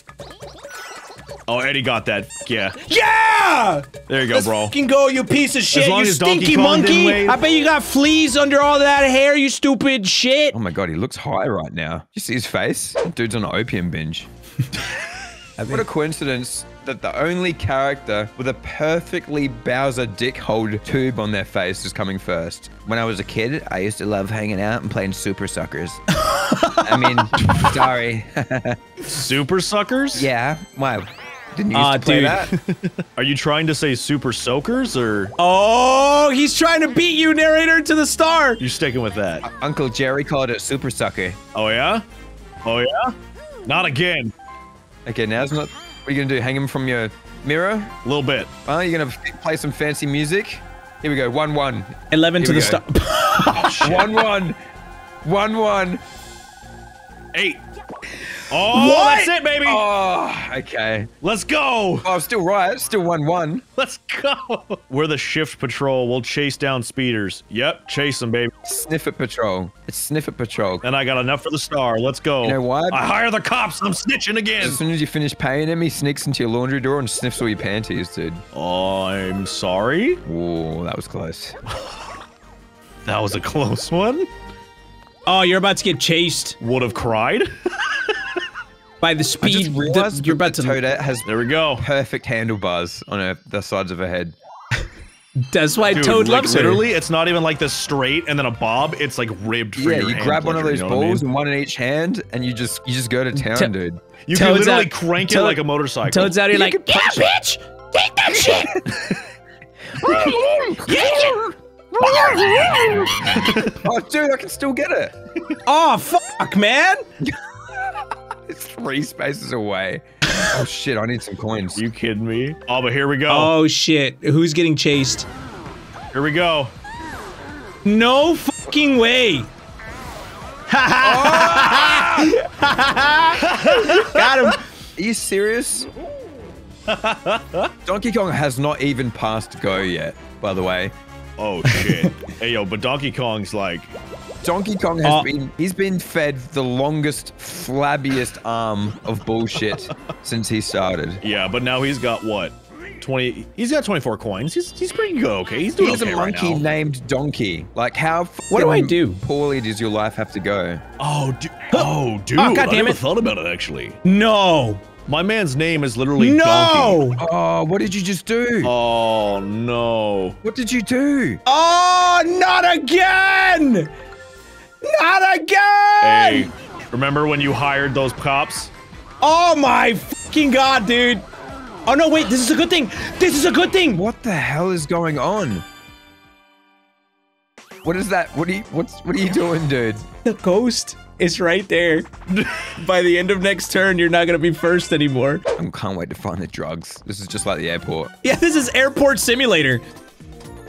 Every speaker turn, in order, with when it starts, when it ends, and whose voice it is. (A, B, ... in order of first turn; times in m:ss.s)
0:01.5-0:02.8 A
0:02.9-0:10.6 B
0:04.1-0:04.8 A
0:05.7-0:07.4 A
0:10.5-0:14.3 C
0:15.6-0:15.8 B
0:15.6-0:26.0 C
0:26.2-0:27.5 B
0:26.8-0:28.8 C
0:29.1-0:30.3 A
0:30.1-0:32.5 C
0:31.7-0:32.5 B
0:32.6-0:35.3 A
0:35.4-0:38.6 B
0:38.6-0:39.5 A
0:39.4-0:41.4 C
0:41.5-0:42.0 A
0:42.6-0:43.2 A
0:43.7-0:44.3 A
0:45.1-0:47.9 C
0:48.0-0:48.5 A
0:48.6-0:52.8 C
0:52.1-0:54.1 B
0:53.6-0:54.6 C
0:55.2-0:56.0 C
0:57.3-0:57.6 A
0:58.5-0:59.9 A
0:58.6-0:59.3 B
0:59.6-1:01.1 C
1:01.2-1:02.1 A
1:02.0-1:03.6 C
1:03.8-1:08.5 A
1:08.6-1:10.8 C
1:10.8-1:14.8 A
1:12.4-1:13.0 C
1:14.6-1:18.4 C
1:18.5-1:20.2 A
1:20.2-1:21.6 C
1:21.7-1:22.0 A
1:23.0-1:24.3 A
1:25.3-1:26.6 B
1:26.6-1:28.2 A
1:29.0-1:30.8 B
1:29.4-1:34.3 C
1:31.2-1:31.8 A
1:35.5-1:36.8 B
1:35.9-1:41.3 A
1:39.8-1:44.0 C
1:43.3-1:43.7 B
1:44.2-1:46.4 A
1:44.3-1:48.7 B
1:46.5-1:47.3 C
1:48.2-1:48.9 C
1:50.0-1:55.1 C
1:50.9-1:51.4 B
1:52.0-1:53.8 A
1:52.0-1:53.1 B
1:55.7-1:57.0 B
1:57.2-2:01.8 C
2:01.8-2:03.5 A
2:03.3-2:05.3 B
2:06.1-2:06.7 A
2:07.8-2:09.5 B
2:10.7-2:14.6 B
2:11.0-2:12.4 C
2:13.4-2:14.5 A
2:15.0-2:15.9 C
2:16.9-2:17.7 A
2:17.9-2:20.9 C
2:21.4-2:23.9 A
2:21.7-2:22.1 B
2:24.4-2:31.2 C
2:31.2-2:36.7 A
2:35.8-2:40.8 C
2:38.5-2:39.2 B
2:41.0-2:44.0 A
2:41.7-2:43.0 B
2:44.0-2:44.8 B
2:45.1-2:47.0 A
2:46.2-2:47.2 B
2:47.2-2:48.7 C
2:48.6-2:50.4 A
2:50.4-2:51.4 C
2:51.5-2:53.9 B
2:54.8-2:56.5 B
2:56.0-2:58.7 A
2:59.2-3:01.2 B
3:01.9-3:04.0 B
3:03.9-3:05.6 C
3:07.8-3:10.1 C
3:10.2-3:15.4 B
3:15.6-3:18.1 C
3:18.2-3:19.8 B